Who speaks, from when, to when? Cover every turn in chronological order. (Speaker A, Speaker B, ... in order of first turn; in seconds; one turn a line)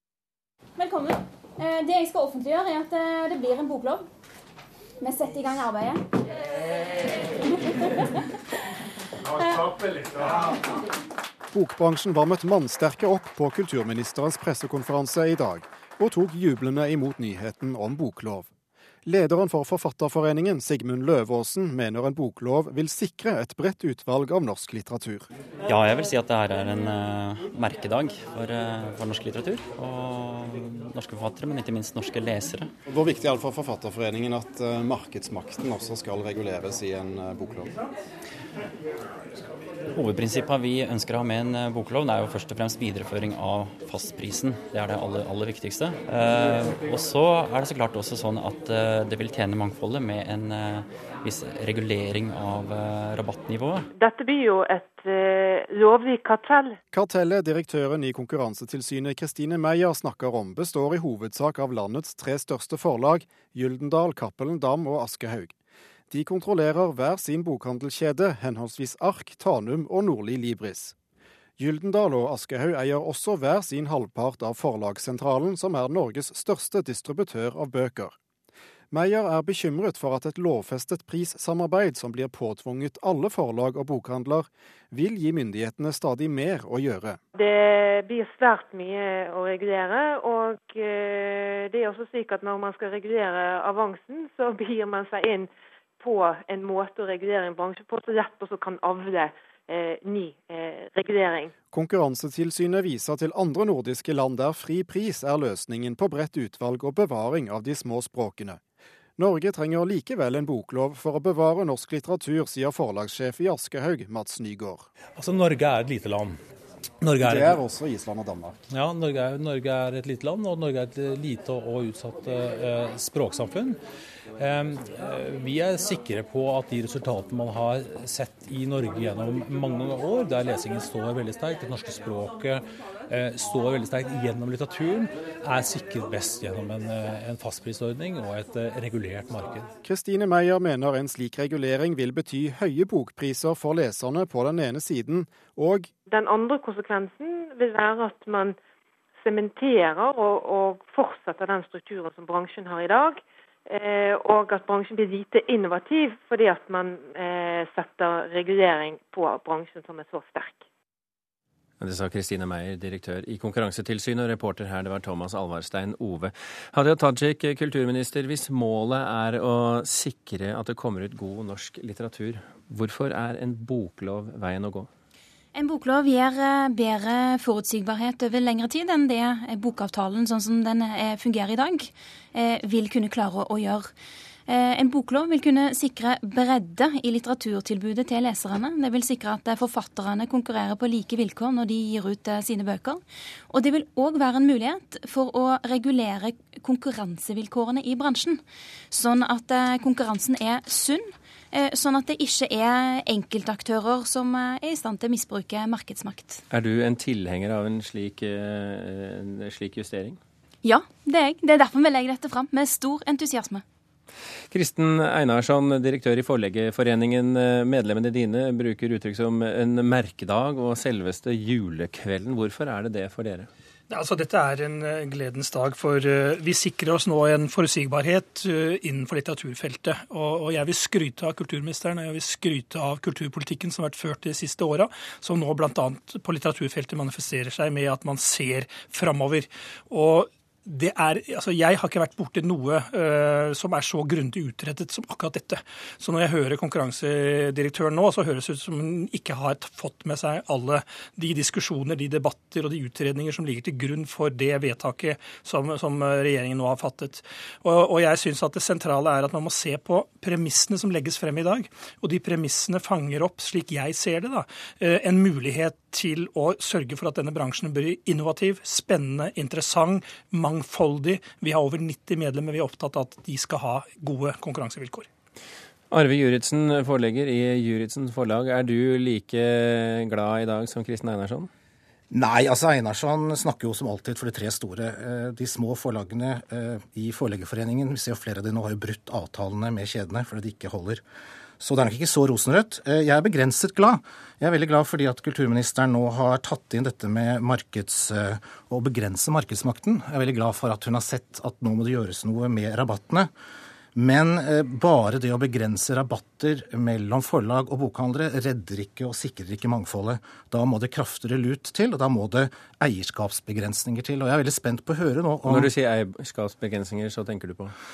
Speaker A: 0.8-4.1
Speaker A: 5.0-6.0
Speaker A: 7.6-8.2
Speaker A: 9.3-9.7
Speaker B: 11.5-18.5
Speaker B: 19.0-25.3
Speaker C: 25.6-32.7
Speaker B: 32.9-37.8
Speaker C: 39.9-53.8
Speaker D: 53.9-56.8
Speaker B: 56.9-65.5
Speaker B: 66.1-70.9
Speaker B: 71.6-78.2
Speaker B: 78.9-87.2
Speaker D: 87.3-101.5
Speaker B: 101.7-108.6
Speaker B: 109.2-114.9
Speaker E: 115.2-116.4
Speaker E: 117.0-117.6
Speaker B: 117.2-118.6
Speaker E: 118.7-123.8
Speaker E: 124.4-139.7
Speaker B: 139.8-145.9
Speaker D: 146.1-148.6
Speaker D: 149.2-160.6
Speaker F: 161.8-174.9
Speaker A: 175.5-183.9
Speaker A: 184.5-206.4
Speaker F: 206.5-210.2
Speaker A: 210.6-213.6
Speaker F: 214.5-223.5
Speaker G: 223.9-275.1
Speaker F: 275.9-281.5
Speaker H: 282.1-291.0
Speaker H: 291.6-303.3
Speaker H: 303.9-315.7
Speaker F: 315.4-317.7